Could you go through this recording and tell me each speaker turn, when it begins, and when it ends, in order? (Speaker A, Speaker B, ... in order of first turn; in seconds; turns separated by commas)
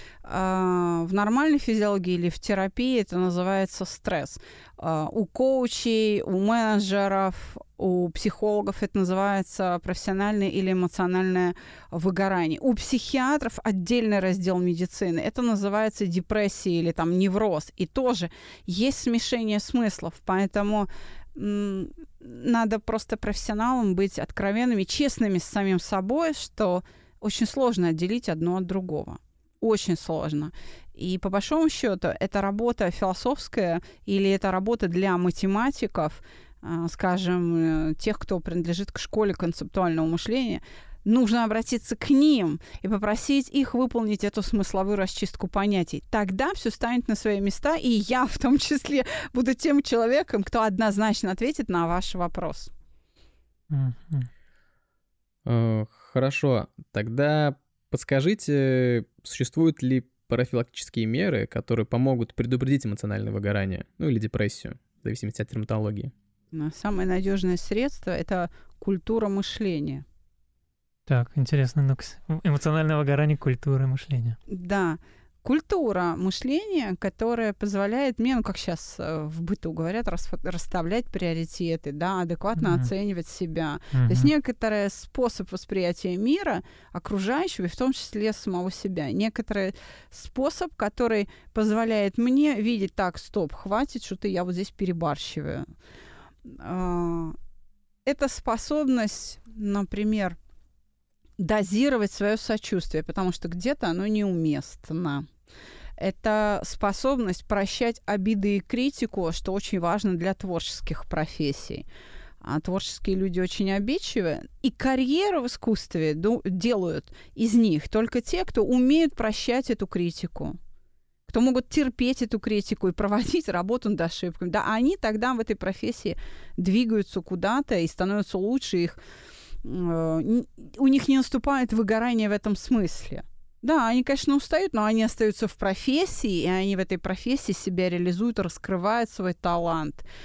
Speaker A: 0.2-52.7, Speaker B: 53.7-54.3, Speaker C: 55.5-66.1, Speaker A: 66.5-70.0, Speaker B: 71.1-74.4, Speaker A: 74.5-95.7, Speaker B: 82.6-82.9, Speaker B: 83.9-84.3, Speaker A: 96.4-97.4, Speaker A: 98.0-100.4, Speaker A: 101.4-105.3, Speaker A: 106.0-111.8, Speaker A: 112.4-120.6, Speaker A: 121.3-129.0, Speaker A: 129.6-140.1